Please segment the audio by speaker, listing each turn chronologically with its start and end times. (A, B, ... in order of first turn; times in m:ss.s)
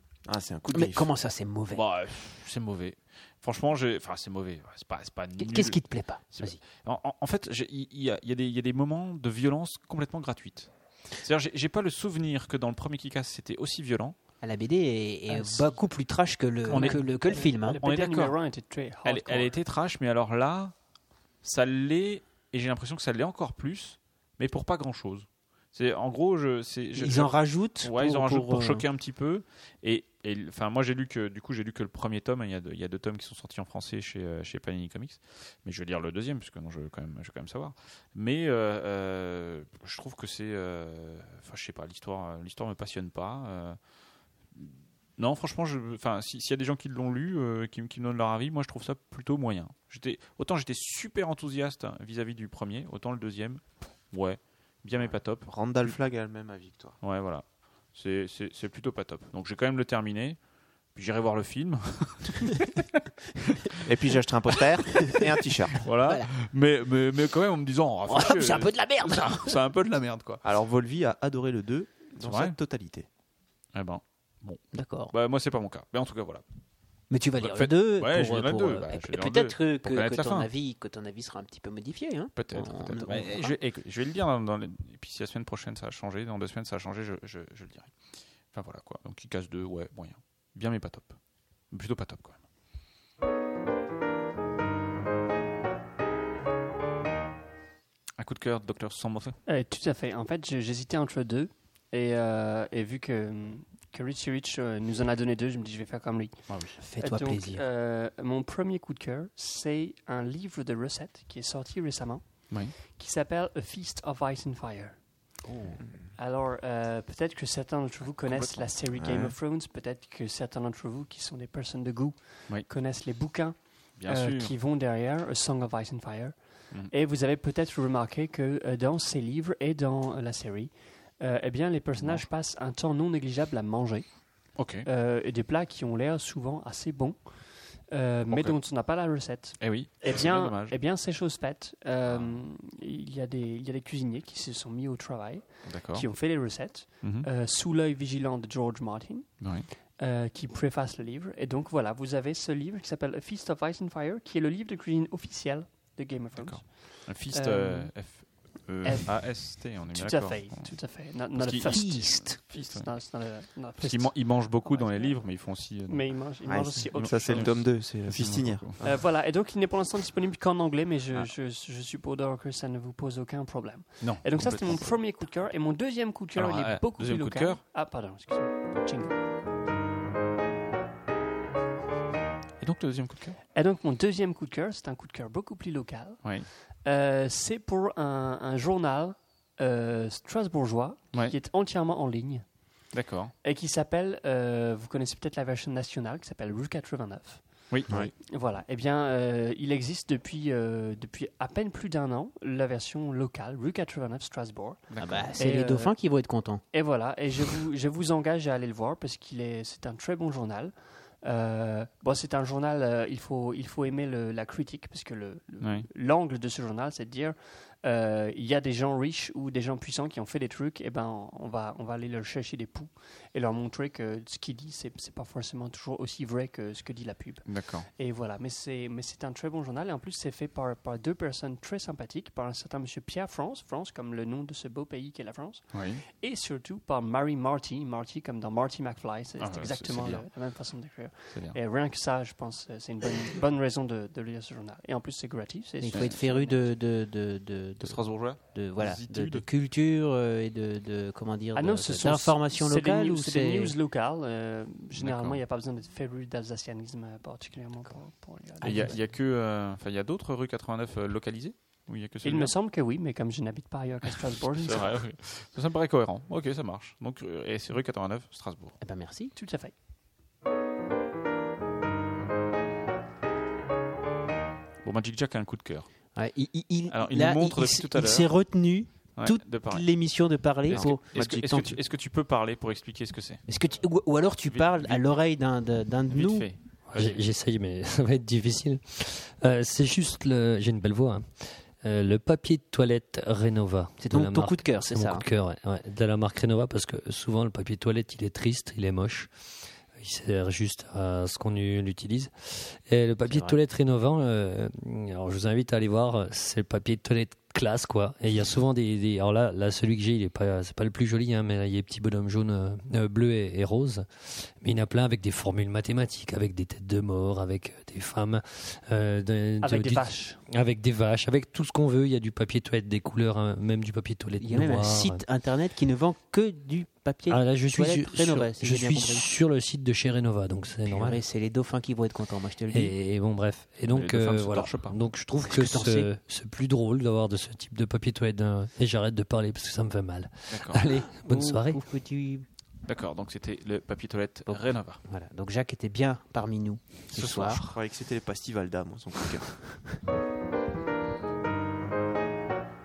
0:00.2-0:01.1 A
0:00.7-0:01.8 B
0:01.7-0:05.8 C
0:05.4-0:06.6 B
0:06.3-0:14.2 C
0:14.4-0:17.8 B
0:15.3-0:15.6 C
0:16.7-0:18.3 C
0:16.7-0:19.5 D
0:19.0-0:20.7 C
0:21.4-0:43.8 C
0:27.0-0:28.8 B
0:44.5-0:55.9 C
0:55.0-0:57.0 A
0:57.0-1:00.4 C
1:00.9-1:03.0 C
1:03.8-1:05.8 A
1:05.8-1:10.4 C
1:08.1-1:09.6 B
1:10.4-1:13.1 A
1:12.2-1:12.6 C
1:13.7-1:16.4 C
1:14.7-1:15.1 B
1:17.1-1:23.6 B
1:17.4-1:20.5 C
1:22.4-1:27.9 C
1:28.5-1:31.2 C
1:31.7-1:32.4 C
1:38.2-1:39.4 C
1:39.4-1:55.0 D
1:46.5-1:46.8 C
1:46.8-1:47.6 B
1:52.5-1:52.7 C
1:55.4-1:55.8 B
1:56.1-2:37.9 D
1:58.2-1:58.7 C
1:58.9-1:59.3 A
2:04.0-2:04.5 C
2:12.0-2:12.3 C
2:14.5-2:14.9 C
2:18.3-2:18.6 C
2:19.6-2:20.8 C
2:22.1-2:22.4 C
2:25.6-2:26.1 C
2:27.0-2:27.3 C
2:29.4-2:29.7 C
2:36.4-2:46.1 C
2:38.8-2:47.6 D
2:41.7-2:42.4 B
2:46.4-2:48.7 A
2:46.9-2:48.9 C
2:48.8-2:59.2 D
2:54.0-2:54.9 C
2:56.3-2:57.6 C
3:02.6-3:03.4 C
3:03.5-3:12.4 D
3:06.2-3:06.5 C
3:12.9-3:13.3 C
3:13.4-3:25.9 D
3:24.9-3:25.3 C
3:25.0-3:26.6 B
3:26.7-4:06.7 D
3:35.6-3:35.9 C
3:47.4-3:47.9 C
3:55.7-3:56.0 C
3:59.4-4:00.2 C
4:01.3-4:01.6 C
4:05.8-4:13.7 B
4:07.8-4:09.4 C
4:11.5-4:19.0 D
4:14.9-4:15.4 C
4:18.6-4:19.0 B
4:18.6-4:22.5 C
4:22.2-4:25.0 D
4:24.0-4:28.8 C
4:28.8-4:29.3 B
4:29.4-4:29.7 D
4:34.8-4:35.9 C
4:36.2-4:41.7 B
4:36.9-4:38.3 C
4:39.2-4:39.8 C
4:40.6-4:43.4 C
4:40.7-4:41.7 A
4:43.5-4:46.5 B
4:44.5-4:45.2 C
4:46.1-4:47.2 C
4:46.9-5:25.2 E
4:54.0-4:55.2 B
5:03.3-5:03.6 B
5:19.6-5:20.4 D
5:24.4-5:29.2 B
5:27.3-5:31.2 E
5:30.8-5:32.9 B
5:32.7-5:41.8 E
5:33.9-5:35.0 C
5:35.4-5:36.1 B
5:40.5-5:40.8 C
5:40.9-5:42.4 B
5:42.8-5:45.0 C
5:44.5-5:47.6 B
5:47.1-5:47.8 C
5:47.7-5:49.5 A